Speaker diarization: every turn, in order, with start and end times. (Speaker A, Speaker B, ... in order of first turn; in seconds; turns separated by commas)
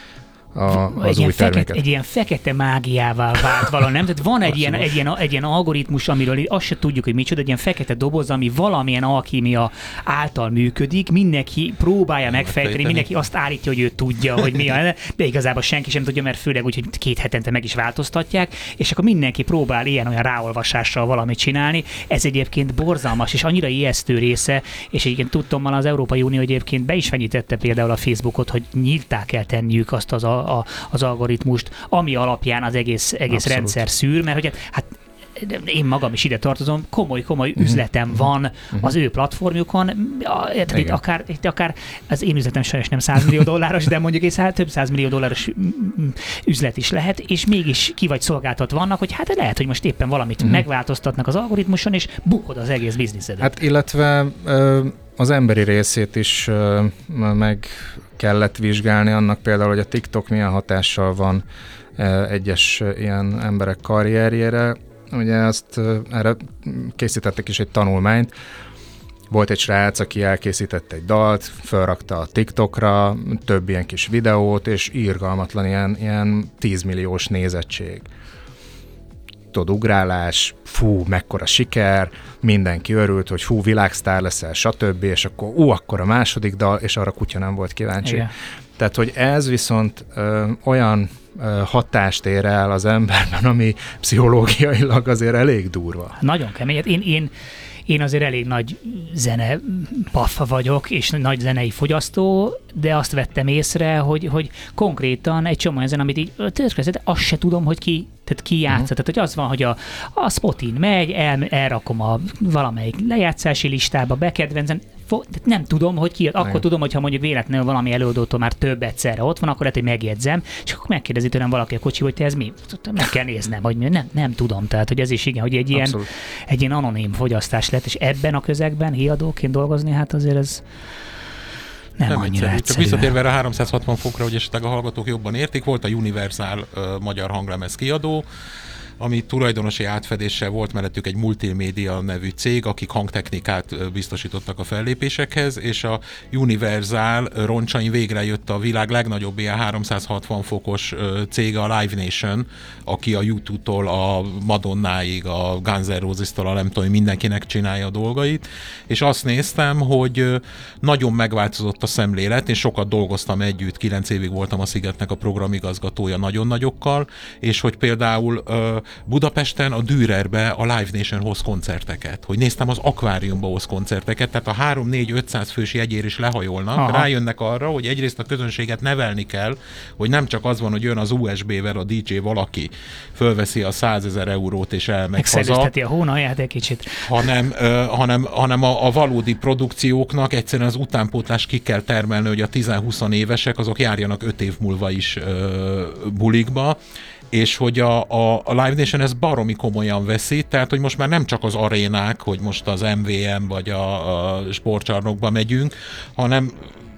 Speaker A: 0.5-1.8, Speaker B: 0.7-53.5, Speaker C: 12.4-13.1, Speaker A: 33.3-33.7, Speaker A: 40.7-41.0, Speaker A: 53.4-61.4, Speaker A: 62.0-68.3, Speaker A: 69.3-78.1, Speaker A: 79.5-96.2, Speaker B: 88.0-88.3, Speaker B: 96.2-97.3, Speaker B: 97.9-130.6, Speaker A: 125.7-126.1, Speaker B: 132.0-133.1, Speaker C: 132.1-138.2, Speaker C: 139.0-185.7, Speaker B: 176.8-177.1, Speaker B: 185.2-187.1, Speaker C: 187.1-196.8, Speaker C: 197.3-206.7